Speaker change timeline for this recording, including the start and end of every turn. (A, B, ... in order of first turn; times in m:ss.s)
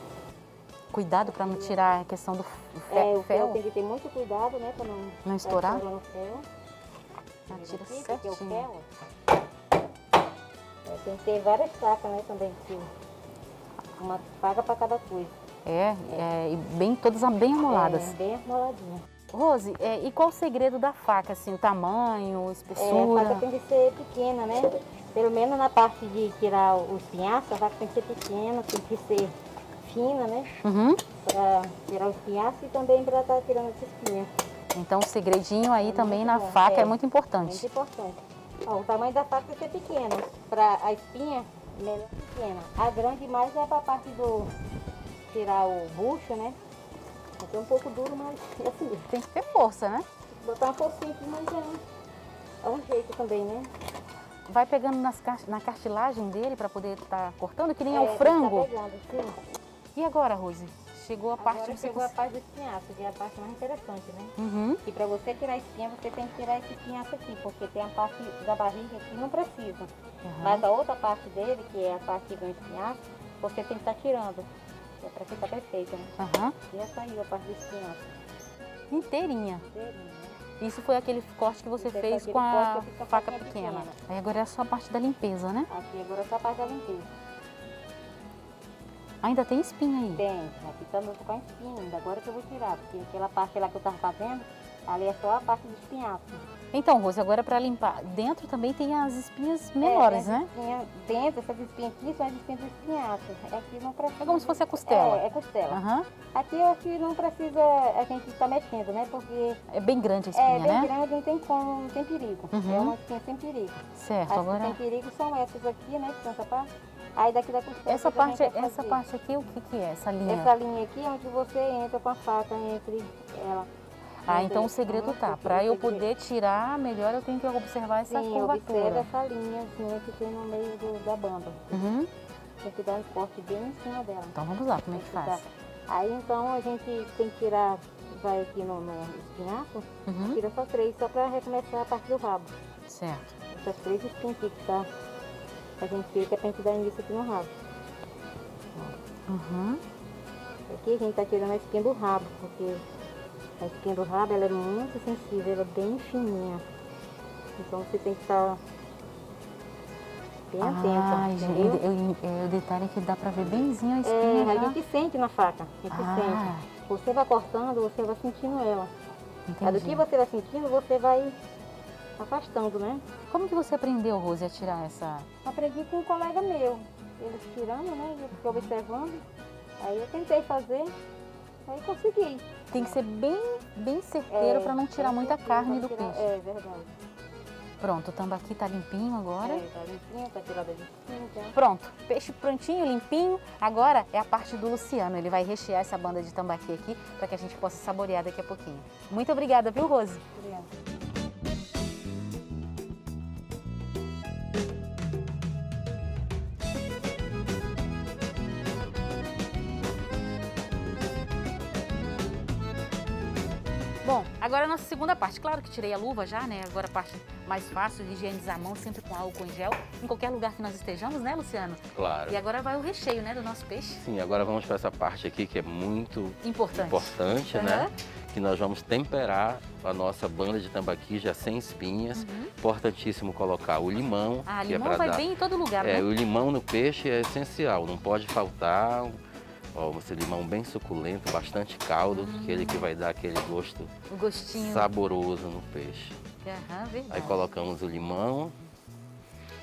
0:00.9-0:03.6 A
0:01.2-0:01.8 B
0:02.9-0:06.4 B
0:05.2-0:05.8 A
0:07.5-0:08.6 A
0:07.5-0:08.8 B
0:10.8-0:12.9 B
0:14.0-0:15.3 B
0:15.6-0:18.1 A
0:17.7-0:19.0 B
0:19.3-0:23.4 A
0:22.8-0:30.5 B
0:30.6-0:31.0 A
0:31.2-0:34.3 B
0:34.7-0:37.6 A
0:35.8-0:44.5 B
0:45.3-0:46.6 B
0:47.4-0:49.1 B
0:49.1-0:50.0 A
0:50.3-0:51.8 B
0:52.6-0:53.7 B
0:54.5-0:58.7 A
0:57.9-0:59.4 B
0:59.9-1:02.1 A
1:01.4-1:04.3 B
1:04.4-1:04.8 A
1:04.8-1:09.9 B
1:10.2-1:10.6 A
1:10.4-1:14.5 B
1:15.0-1:16.1 B
1:16.2-1:16.6 A
1:16.7-1:18.1 B
1:18.9-1:19.6 A
1:19.7-1:20.4 B
1:20.5-1:25.7 A
1:21.8-1:24.0 B
1:25.7-1:27.1 B
1:29.2-1:30.2 A
1:30.1-1:36.4 B
1:36.7-1:40.5 A
1:39.8-1:45.8 B
1:44.2-1:46.1 A
1:46.3-1:49.6 B
1:49.7-1:50.9 A
1:50.3-1:59.0 B
1:52.5-1:52.9 A
1:53.9-1:54.8 A
1:57.9-2:00.5 A
2:00.2-2:03.7 B
2:04.2-2:09.1 A
2:04.3-2:06.1 B
2:08.1-2:11.8 B
2:11.7-2:12.1 A
2:12.6-2:14.3 B
2:14.3-2:15.4 A
2:14.9-2:22.5 B
2:20.0-2:20.4 A
2:22.9-2:23.2 A
2:23.5-2:24.9 B
2:25.8-2:27.5 B
2:28.8-2:29.8 A
2:30.7-2:32.8 B
2:33.6-2:36.6 B
2:37.6-2:38.6 B
2:40.5-2:41.8 B
2:40.6-2:44.8 A
2:44.0-2:48.9 B
2:45.9-2:46.7 A
2:49.5-2:50.0 A
2:49.6-2:51.4 B
2:52.2-2:53.0 B
2:53.3-2:55.3 A
2:55.4-2:59.2 B
2:58.4-2:58.7 A
2:59.8-3:00.9 B
3:01.7-3:03.0 B
3:02.7-3:06.3 A
3:04.3-3:06.9 B
3:07.8-3:09.6 A
3:09.4-3:11.5 B
3:11.5-3:20.2 A
3:20.4-3:20.7 B
3:34.0-3:44.0 A
3:41.9-3:42.4 C
3:44.0-3:55.2 C
3:46.4-3:47.9 A
3:52.1-3:52.5 A
3:54.4-3:56.0 A
3:55.8-3:59.2 C
3:59.7-4:03.9 C
4:02.1-4:02.9 A
4:04.1-4:04.9 A
4:04.5-4:06.2 C
4:06.4-4:07.5 A
4:07.1-4:08.5 C